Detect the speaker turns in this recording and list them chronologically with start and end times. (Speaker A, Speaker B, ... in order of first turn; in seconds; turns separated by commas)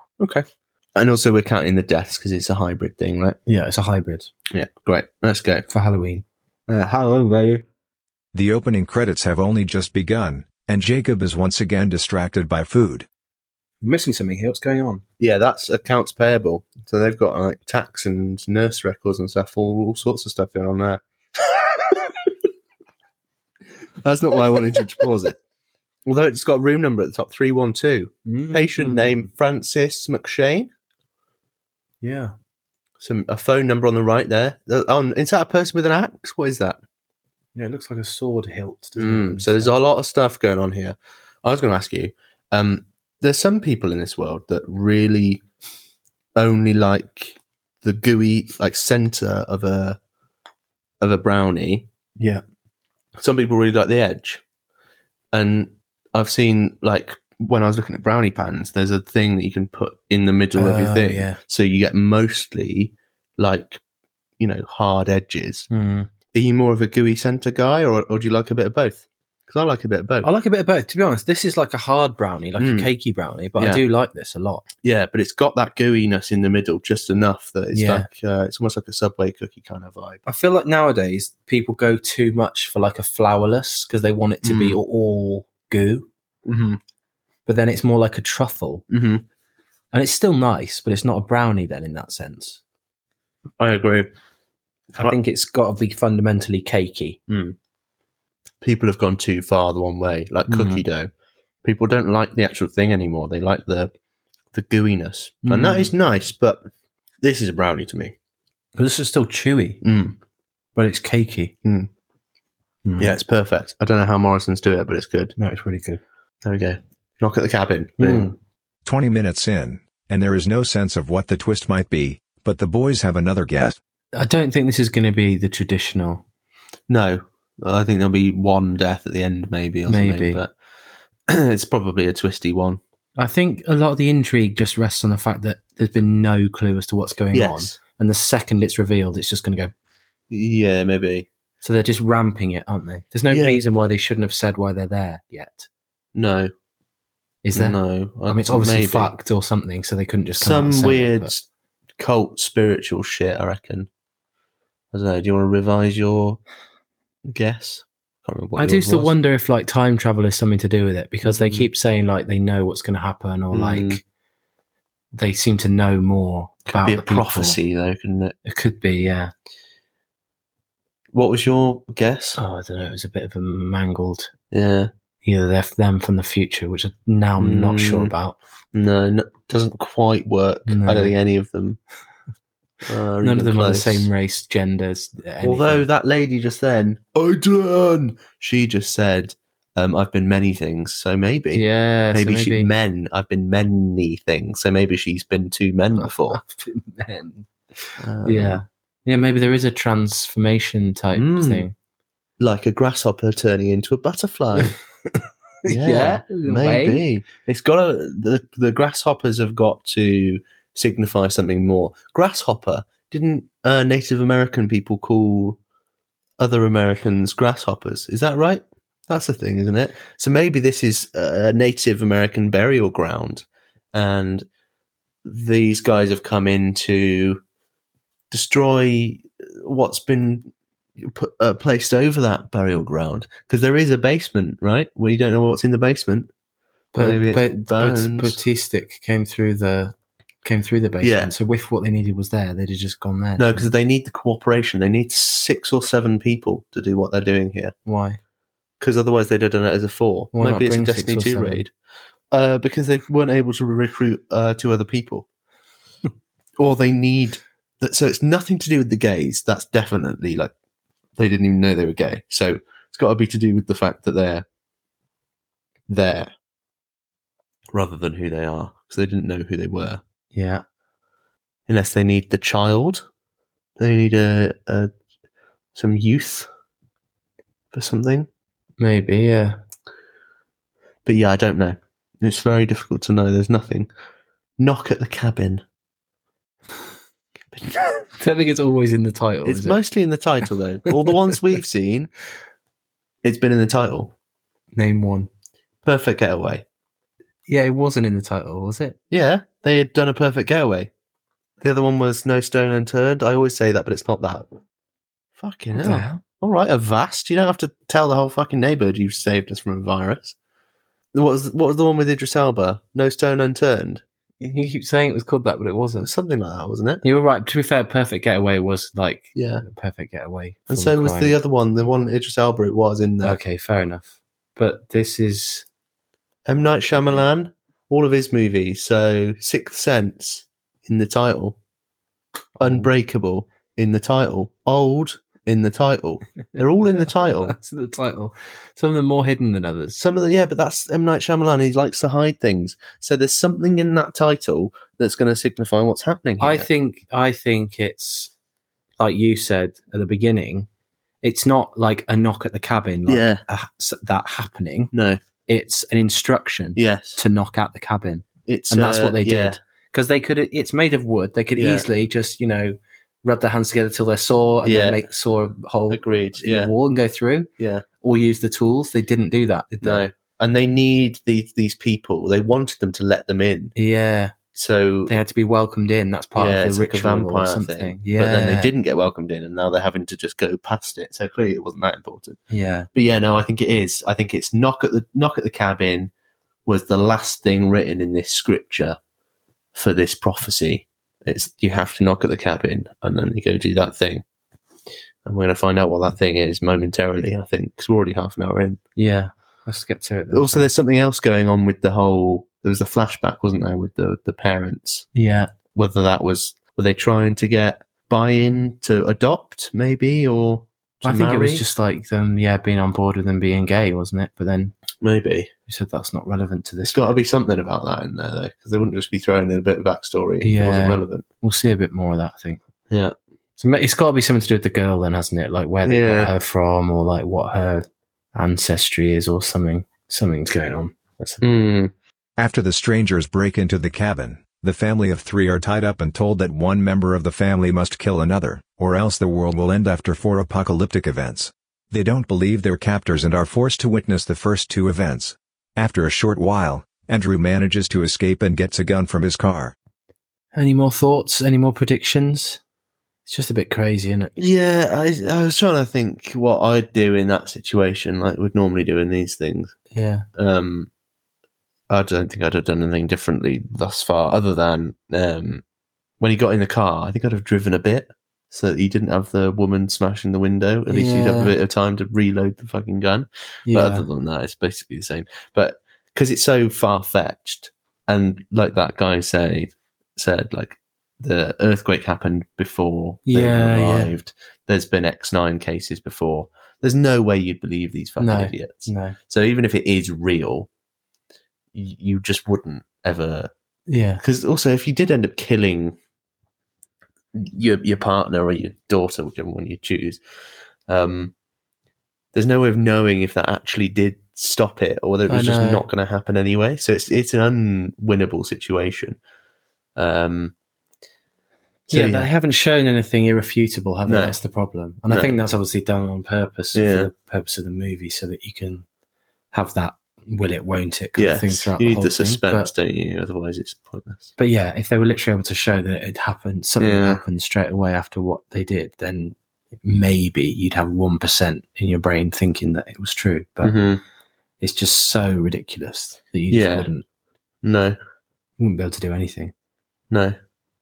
Speaker A: 0.2-3.4, Speaker B: 3.5-4.3, Speaker A: 4.5-5.7, Speaker B: 5.7-7.6, Speaker C: 8.3-13.1, Speaker B: 13.8-15.0, Speaker A: 15.2-21.0, Speaker A: 24.0-25.4, Speaker A: 26.1-30.7, Speaker B: 28.2-29.1, Speaker B: 32.0-32.3, Speaker A: 33.0-36.8, Speaker B: 37.5-39.7, Speaker A: 39.0-45.4, Speaker A: 46.4-50.0, Speaker A: 51.0-51.9, Speaker A: 53.2-54.4, Speaker A: 55.3-63.8, Speaker B: 60.5-61.4, Speaker A: 64.4-65.7, Speaker B: 65.7-66.1, Speaker A: 66.3-70.3, Speaker B: 70.2-74.6, Speaker A: 72.6-72.9, Speaker A: 73.6-73.8, Speaker A: 74.8-80.2, Speaker B: 77.7-78.1, Speaker B: 80.2-86.1, Speaker A: 84.4-84.8, Speaker A: 86.5-86.8, Speaker B: 87.5-88.8, Speaker A: 88.9-89.2, Speaker B: 89.9-92.6, Speaker A: 93.6-94.1, Speaker B: 95.0-97.2, Speaker A: 97.3-97.5, Speaker A: 98.6-101.1, Speaker B: 100.5-100.8, Speaker A: 101.6-103.9, Speaker A: 104.5-106.6, Speaker B: 105.4-105.9, Speaker A: 107.2-108.1, Speaker B: 108.8-109.8, Speaker A: 109.8-110.2, Speaker B: 110.8-111.5, Speaker B: 112.8-113.1, Speaker A: 113.0-115.3, Speaker B: 115.4-116.0, Speaker A: 116.4-118.3, Speaker B: 118.0-118.3, Speaker C: 118.8-123.8, Speaker B: 124.1-126.2, Speaker A: 126.9-130.5, Speaker B: 129.9-130.4, Speaker A: 131.3-132.8, Speaker B: 133.2-139.7, Speaker A: 137.3-137.8, Speaker A: 140.3-141.3, Speaker B: 141.6-145.7, Speaker A: 143.3-143.6, Speaker A: 146.1-146.5, Speaker B: 147.4-151.3, Speaker A: 147.5-149.1, Speaker A: 150.4-151.4, Speaker A: 152.0-153.9, Speaker A: 154.9-156.4, Speaker A: 157.3-159.1, Speaker B: 158.6-164.0, Speaker A: 161.2-161.7, Speaker A: 163.5-164.0, Speaker B: 165.1-167.6, Speaker A: 166.7-168.3, Speaker B: 168.4-169.3, Speaker A: 171.1-172.4, Speaker B: 172.4-174.3, Speaker A: 174.5-174.9, Speaker B: 175.2-178.4, Speaker A: 177.4-178.1, Speaker A: 178.7-181.8, Speaker B: 180.7-181.1, Speaker A: 182.8-184.1, Speaker B: 183.2-185.9, Speaker A: 185.4-196.4, Speaker B: 191.5-192.7, Speaker B: 196.0-197.4, Speaker A: 198.0-198.6, Speaker B: 198.2-201.7, Speaker A: 201.1-201.7, Speaker A: 202.4-204.8, Speaker B: 204.6-207.0, Speaker A: 205.7-215.6, Speaker A: 216.4-224.4, Speaker A: 225.2-227.4, Speaker A: 228.3-236.3, Speaker B: 236.9-243.7, Speaker A: 236.9-238.4, Speaker A: 241.0-241.3, Speaker A: 243.4-247.7, Speaker B: 247.8-248.2, Speaker A: 248.8-251.7, Speaker B: 250.3-251.6, Speaker A: 252.3-255.3, Speaker A: 256.6-260.5, Speaker A: 261.2-264.4, Speaker A: 265.9-266.3, Speaker A: 267.7-270.0, Speaker B: 270.3-270.6, Speaker A: 271.7-273.0, Speaker A: 273.8-274.9, Speaker A: 275.7-276.5, Speaker A: 277.7-278.3, Speaker B: 278.8-279.6, Speaker A: 281.0-283.9, Speaker A: 284.6-285.6, Speaker B: 288.2-289.8, Speaker A: 289.4-292.1, Speaker A: 293.2-294.1, Speaker B: 294.7-295.3, Speaker A: 295.8-296.6, Speaker B: 297.5-299.0, Speaker A: 299.1-300.9, Speaker A: 301.6-304.5, Speaker A: 305.4-310.4, Speaker B: 305.7-306.2, Speaker A: 311.1-314.0, Speaker B: 314.4-316.1, Speaker A: 316.0-317.0, Speaker B: 317.0-321.4, Speaker A: 319.3-319.6, Speaker A: 320.7-323.4, Speaker B: 323.2-325.6, Speaker A: 326.5-331.6, Speaker A: 332.6-337.5, Speaker B: 332.6-332.9, Speaker B: 337.2-340.0, Speaker A: 339.9-346.7, Speaker B: 346.4-348.3, Speaker B: 349.0-350.7, Speaker B: 351.2-354.9, Speaker A: 353.1-353.4, Speaker A: 354.9-355.2, Speaker B: 355.5-367.5, Speaker A: 356.8-357.2, Speaker A: 358.4-359.6, Speaker A: 361.6-361.9, Speaker A: 364.6-365.0, Speaker A: 365.9-366.7, Speaker A: 367.6-367.9, Speaker B: 368.0-370.1, Speaker A: 369.8-373.7, Speaker B: 373.8-374.3, Speaker A: 374.5-375.1, Speaker B: 375.1-378.7, Speaker A: 376.4-382.4, Speaker B: 382.5-382.9, Speaker A: 382.9-386.1, Speaker A: 386.6-389.0, Speaker A: 389.7-394.2, Speaker A: 395.2-398.8, Speaker B: 398.9-400.7, Speaker A: 400.3-405.1, Speaker B: 405.1-405.5, Speaker A: 405.7-411.6, Speaker B: 411.0-414.7, Speaker A: 415.0-415.5, Speaker B: 415.7-417.1, Speaker A: 416.8-421.2, Speaker B: 420.4-422.6, Speaker A: 422.9-423.1, Speaker B: 423.6-431.4, Speaker A: 425.8-426.3, Speaker A: 431.4-431.9, Speaker C: 432.4-449.7, Speaker B: 450.5-452.6, Speaker B: 453.2-454.3, Speaker A: 454.4-459.7, Speaker B: 459.9-460.2, Speaker A: 460.3-460.9, Speaker A: 461.9-465.6, Speaker A: 466.2-490.7, Speaker B: 470.9-471.5, Speaker B: 473.7-474.0, Speaker B: 483.3-484.1, Speaker B: 488.2-489.2, Speaker A: 491.7-493.5, Speaker B: 493.9-494.2, Speaker A: 494.2-495.9, Speaker A: 497.3-500.2, Speaker A: 500.9-501.3, Speaker A: 502.3-509.2, Speaker B: 505.3-505.8, Speaker A: 509.9-510.5, Speaker A: 511.9-512.3, Speaker B: 511.9-518.8, Speaker A: 514.0-514.4, Speaker A: 515.1-515.4, Speaker A: 516.7-517.1, Speaker B: 519.5-522.7, Speaker A: 521.2-524.3, Speaker B: 524.4-533.8, Speaker A: 526.8-527.2, Speaker A: 533.6-534.0, Speaker B: 534.6-537.0, Speaker A: 536.5-536.9, Speaker A: 537.6-538.0, Speaker B: 538.6-539.5, Speaker A: 540.1-540.4